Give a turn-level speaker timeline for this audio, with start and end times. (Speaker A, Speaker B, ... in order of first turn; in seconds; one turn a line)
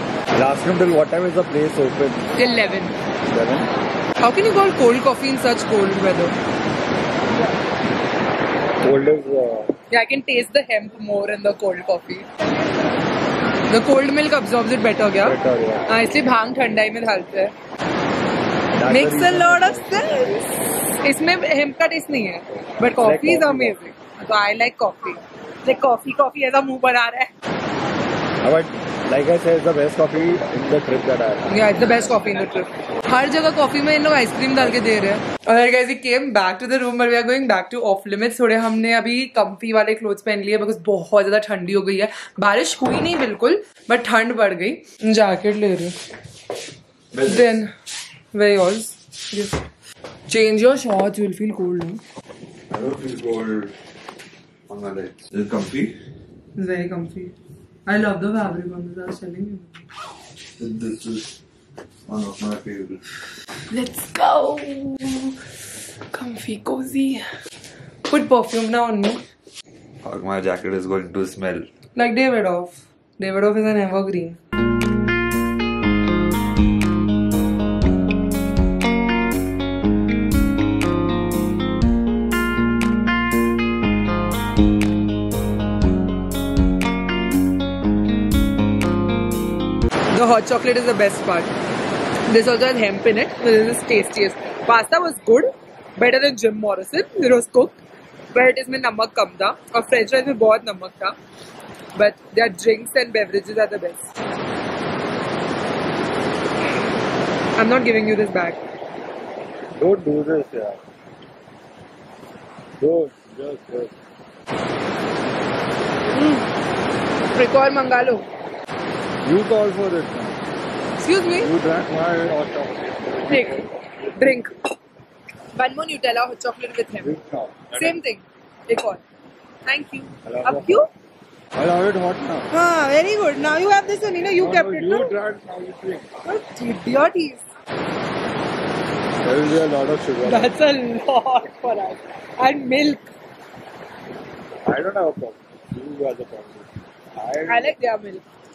Speaker A: 0.3-2.3
Speaker B: 2.3-3.0
Speaker A: 3.2-3.7
Speaker B: 4.2-6.4
Speaker A: 8.8-9.7
Speaker B: 9.9-12.3
Speaker B: 13.7-15.3
Speaker A: 15.2-16.0
Speaker B: 15.9-17.5
Speaker A: 18.7-20.3
Speaker B: 18.9-27.3
Speaker A: 22.8-23.8
Speaker A: 28.4-31.6
Speaker B: 31.5-46.0
Speaker C: 47.1-47.5
Speaker B: 47.2-47.7
Speaker B: 48.3-49.6
Speaker B: 50.3-52.0
Speaker C: 52.7-53.7
Speaker C: 54.7-55.9
Speaker B: 56.5-57.3
Speaker B: 57.9-59.8
Speaker C: 60.6-61.3
Speaker C: 62.1-63.0
Speaker B: 63.7-65.4
Speaker B: 66.1-67.2
Speaker B: 68.0-69.2
Speaker C: 70.0-71.7
Speaker B: 72.0-74.4
Speaker B: 90.1-91.5
Speaker B: 92.3-97.8
Speaker B: 98.3-101.2
Speaker B: 102.0-104.1
Speaker B: 107.5-108.6
Speaker A: 109.8-110.8
Speaker A: 112.8-113.9
Speaker B: 116.1-116.5
Speaker B: 117.3-118.2
Speaker A: 119.2-120.4
Speaker B: 121.0-121.5
Speaker A: 121.3-123.7
Speaker B: 123.3-124.5
Speaker B: 125.5-127.2
Speaker A: 127.0-128.0
Speaker B: 127.7-129.0
Speaker B: 129.7-130.9
Speaker A: 130.2-130.9
Speaker A: 131.5-132.5
Speaker B: 132.5-135.2
Speaker A: 134.4-136.1
Speaker B: 136.2-137.4
Speaker A: 139.2-140.5
Speaker B: 140.2-143.1
Speaker A: 144.6-147.7
Speaker B: 147.5-148.2